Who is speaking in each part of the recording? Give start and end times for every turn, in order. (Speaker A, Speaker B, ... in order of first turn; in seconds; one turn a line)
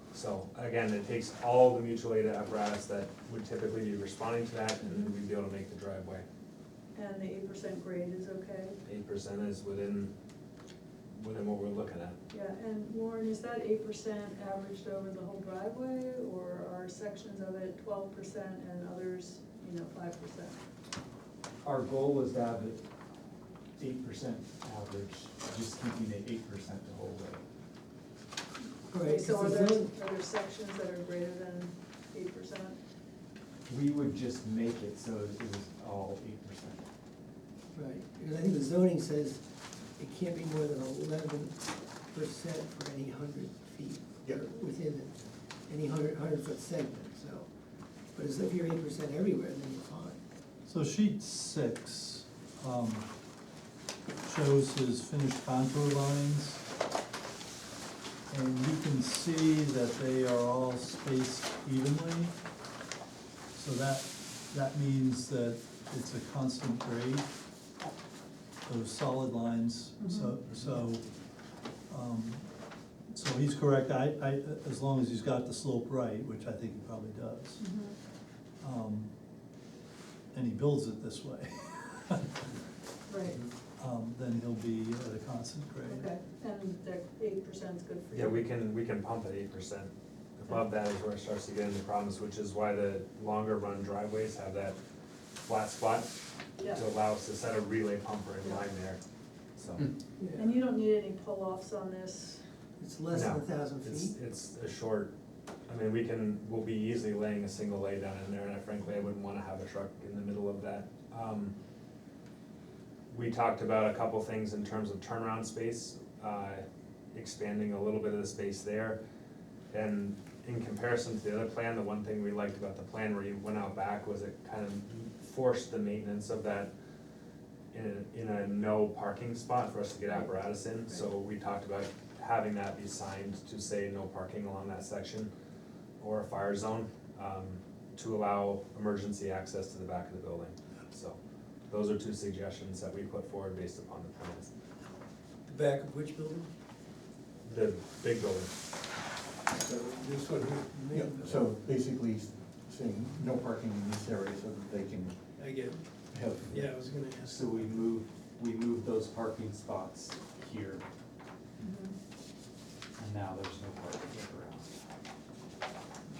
Speaker A: 0.1-6.2
Speaker B: 4.8-5.1
Speaker B: 6.9-8.8
Speaker A: 8.8-10.1
Speaker A: 11.1-12.2
Speaker B: 12.3-20.6
Speaker C: 21.6-22.8
Speaker C: 23.8-27.4
Speaker D: 28.9-29.9
Speaker B: 28.9-32.8
Speaker C: 33.6-36.8
Speaker D: 37.7-39.4
Speaker D: 40.0-47.5
Speaker D: 48.1-50.2
Speaker E: 50.6-53.1
Speaker E: 54.2-56.6
Speaker E: 58.3-62.3
Speaker E: 63.5-67.3
Speaker E: 68.6-71.0
Speaker B: 70.0-70.4
Speaker E: 71.9-72.5
Speaker E: 73.1-77.6
Speaker B: 77.6-78.0
Speaker E: 78.6-79.1
Speaker E: 80.3-82.4
Speaker B: 83.1-83.4
Speaker E: 83.8-86.1
Speaker B: 85.8-88.5
Speaker A: 88.1-94.8
Speaker A: 95.4-96.1
Speaker B: 96.6-96.9
Speaker A: 96.7-99.0
Speaker A: 99.5-99.8
Speaker D: 100.2-100.6
Speaker B: 100.3-102.4
Speaker D: 102.8-104.2
Speaker A: 103.1-105.1
Speaker A: 105.7-111.5
Speaker A: 113.1-119.0
Speaker A: 119.7-126.7
Speaker A: 127.7-135.3
Speaker A: 136.0-141.2
Speaker A: 141.7-144.5
Speaker D: 145.5-146.5
Speaker A: 147.4-148.5
Speaker F: 149.6-155.2
Speaker D: 150.7-151.5
Speaker D: 155.4-155.8
Speaker F: 156.1-156.8
Speaker D: 156.5-157.4
Speaker C: 157.2-160.8
Speaker B: 161.6-161.9
Speaker C: 163.0-164.8